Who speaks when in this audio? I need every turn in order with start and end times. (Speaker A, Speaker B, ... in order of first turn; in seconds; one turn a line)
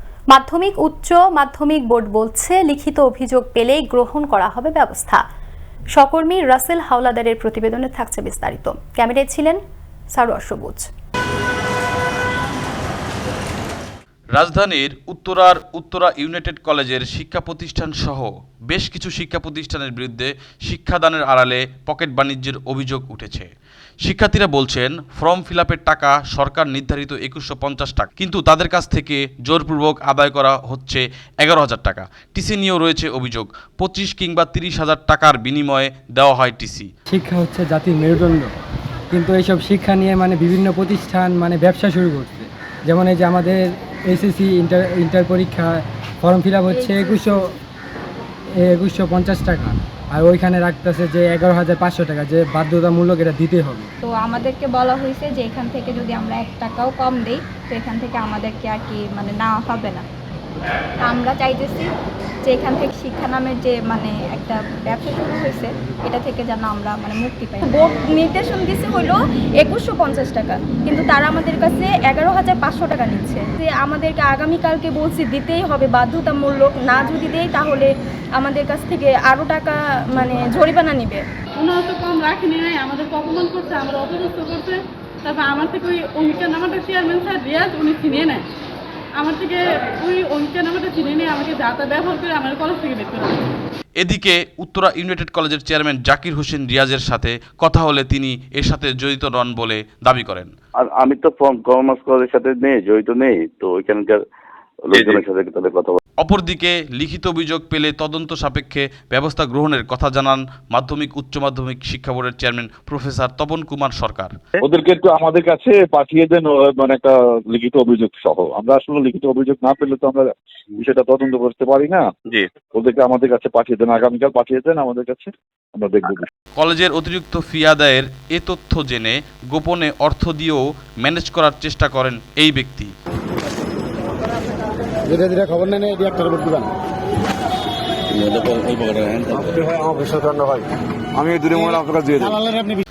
Speaker A: 0.3-5.2
Speaker A: 5.9-9.6
Speaker A: 10.1-10.9
Speaker B: 14.4-23.5
Speaker B: 24.0-36.9
Speaker C: 37.1-38.5
Speaker C: 39.1-47.5
Speaker D: 46.7-47.3
Speaker C: 48.6-53.9
Speaker D: 54.0-60.0
Speaker D: 61.0-61.9
Speaker D: 62.4-81.2
Speaker E: 81.6-88.4
Speaker E: 89.2-93.5
Speaker B: 94.0-100.5
Speaker F: 100.8-104.2
Speaker F: 104.9-106.0
Speaker B: 106.2-114.3
Speaker G: 114.6-122.1
Speaker G: 122.7-126.2
Speaker B: 126.5-132.9
Speaker F: 138.2-139.3
Speaker H: 139.3-140.6
Speaker H: 141.2-142.6